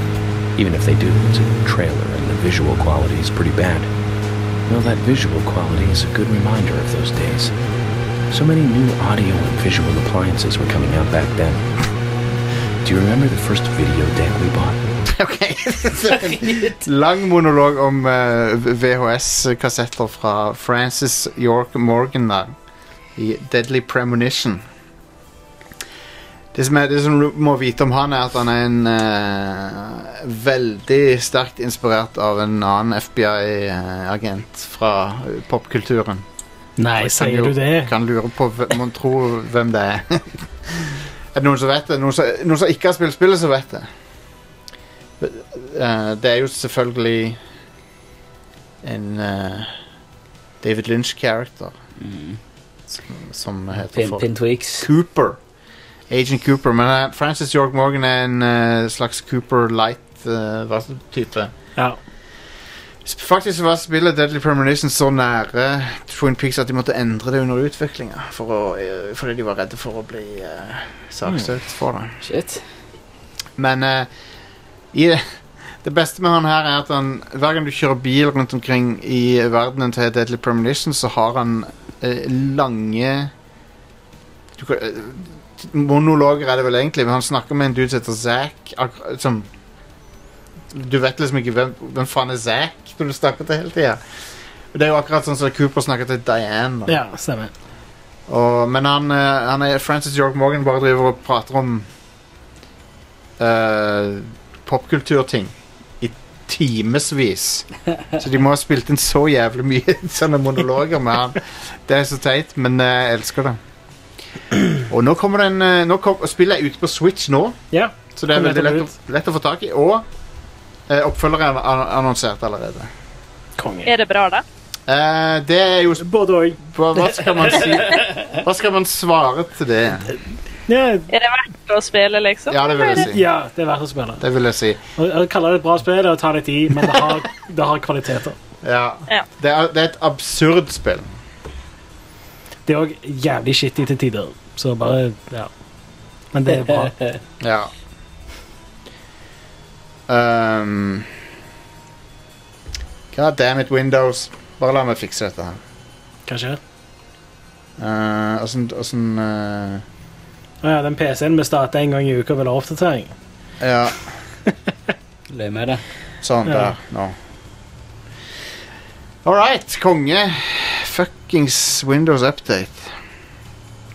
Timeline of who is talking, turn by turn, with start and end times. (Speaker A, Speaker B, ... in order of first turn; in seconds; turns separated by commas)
Speaker A: 0.6-3.9, Speaker A: 4.7-7.5, Speaker A: 8.3-11.7, Speaker A: 12.8-14.9, Speaker B: 15.1-22.5, Speaker C: 16.2-16.8, Speaker B: 23.2-24.6, Speaker B: 26.5-36.2, Speaker D: 36.8-37.9, Speaker B: 37.0-43.9, Speaker B: 45.2-47.4, Speaker B: 48.8-49.8, Speaker B: 50.6-51.7, Speaker C: 52.0-52.4, Speaker B: 53.1-55.4, Speaker C: 53.9-54.9, Speaker B: 56.1-61.5, Speaker B: 63.0-72.1, Speaker C: 72.2-72.6, Speaker B: 73.6-74.1, Speaker B: 74.9-75.3, Speaker B: 75.8-83.3, Speaker B: 84.6-89.5, Speaker B: 90.7-94.0, Speaker B: 94.7-97.0, Speaker D: 96.9-97.5, Speaker B: 98.3-101.9, Speaker B: 103.4-113.6, Speaker B: 114.9-117.6, Speaker D: 117.7-118.9, Speaker B: 118.1-120.1, Speaker B: 120.9-122.9, Speaker D: 123.6-123.9, Speaker E: 123.8-124.4, Speaker B: 124.9-126.1, Speaker D: 126.0-126.6, Speaker B: 126.6-130.1, Speaker D: 130.7-131.1, Speaker E: 131.1-133.1, Speaker B: 132.5-133.2, Speaker D: 132.9-134.2, Speaker B: 134.2-134.8, Speaker D: 135.0-138.4, Speaker B: 138.6-141.1, Speaker D: 142.7-145.5, Speaker D: 146.3-147.2, Speaker B: 147.4-147.7, Speaker B: 150.1-151.1, Speaker B: 153.1-155.6, Speaker D: 156.3-156.6, Speaker B: 157.8-159.8, Speaker D: 160.6-163.1, Speaker B: 163.6-164.1, Speaker C: 165.3-165.8, Speaker B: 166.2-167.2, Speaker D: 166.5-166.7, Speaker B: 169.2-172.9